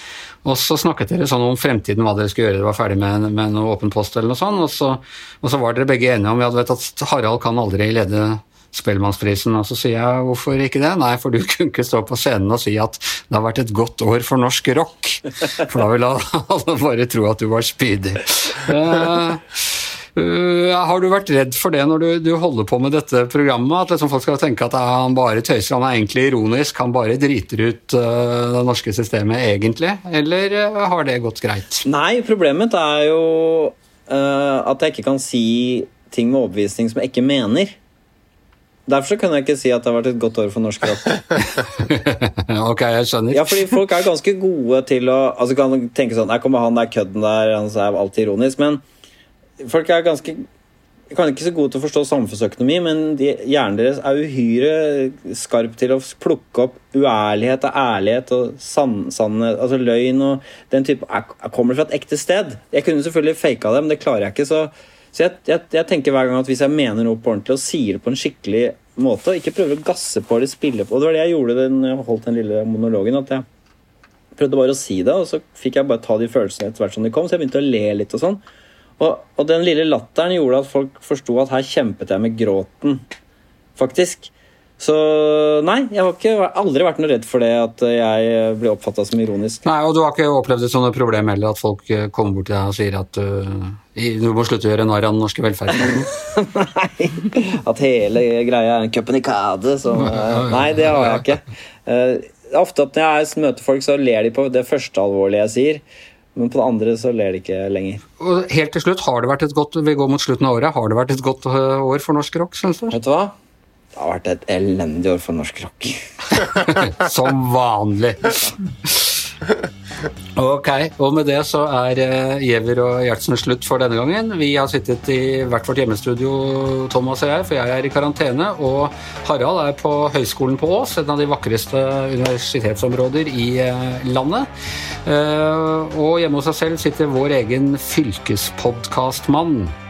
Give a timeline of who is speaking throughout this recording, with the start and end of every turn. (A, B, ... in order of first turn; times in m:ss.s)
0:00.4-0:31.8 A
0:31.8-0:37.8 B
0:38.9-0:41.4 B
0:41.8-0:43.8 A
0:43.3-0:48.8 B
0:49.6-0:50.4 B
0:51.1-1:13.5 B
1:14.4-1:18.4 B
1:19.0-1:23.0 B
1:23.8-1:29.7 B
1:29.6-1:36.1 A
1:35.8-1:45.8 B
1:40.0-1:41.2 A
1:46.4-1:48.0 B
1:48.2-1:53.0 A
1:52.9-1:53.3 B
1:54.0-1:56.4 B
1:56.5-1:59.3 A
2:00.4-2:14.5 A
2:15.0-2:19.7 A